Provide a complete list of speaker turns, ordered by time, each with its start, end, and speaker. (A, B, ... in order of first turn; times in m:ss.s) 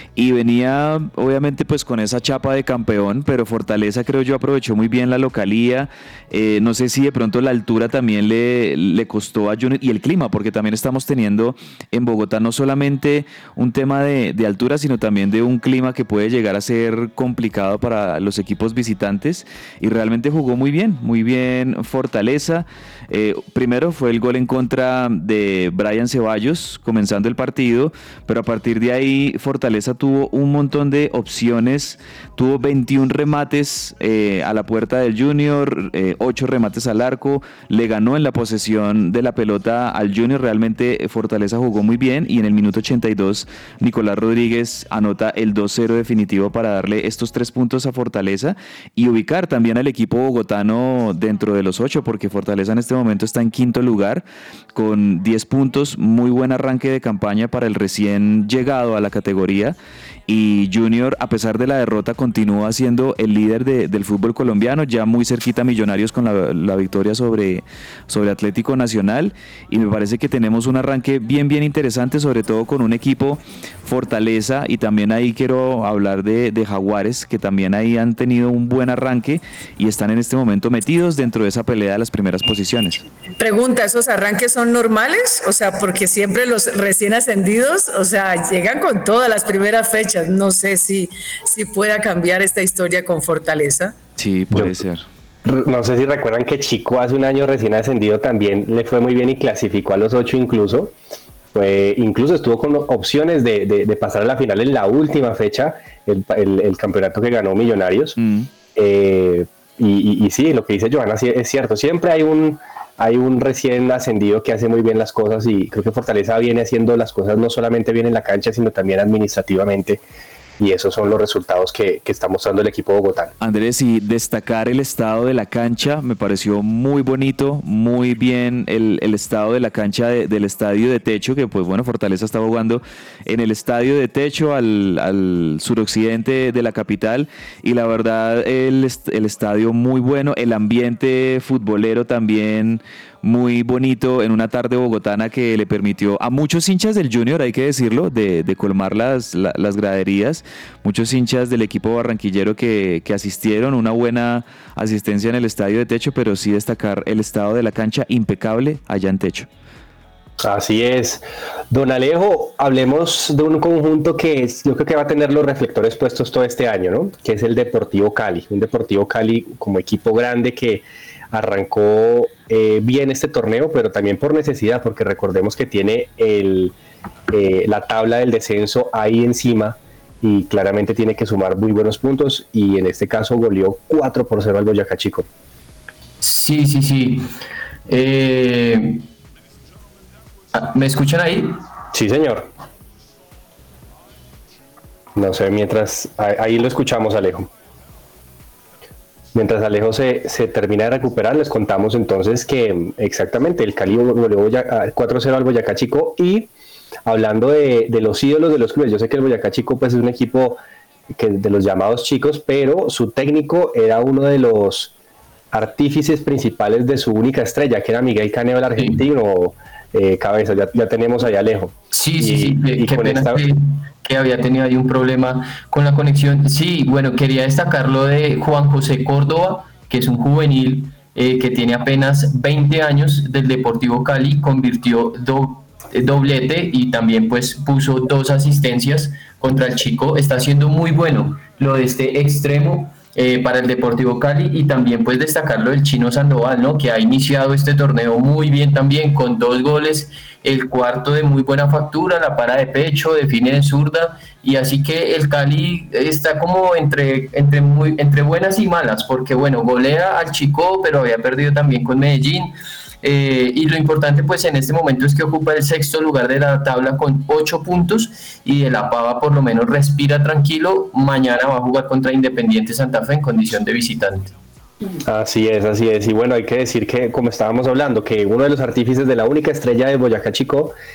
0:00.2-0:59.8 A
1:00.3-1:23.0 A
1:23.4-1:33.9 B
1:34.2-1:35.1 A
1:34.5-1:34.8 C
1:35.4-1:40.9 C
1:41.5-1:48.2 C
1:48.2-1:48.5 A
1:48.7-2:00.0 C
2:00.6-2:03.3 C
2:03.4-2:39.5 A
2:40.4-2:56.8 C
2:57.3-3:05.3 C
3:06.2-3:07.3 D
3:07.9-3:09.0 D
3:10.5-3:11.6 D
3:11.9-3:12.5 C
3:15.1-3:17.5 C
3:19.3-3:26.5 C
3:27.1-3:30.6 C
3:31.1-3:34.9 C
3:35.5-3:43.4 C
3:41.9-4:34.3 D
4:35.0-4:40.7 C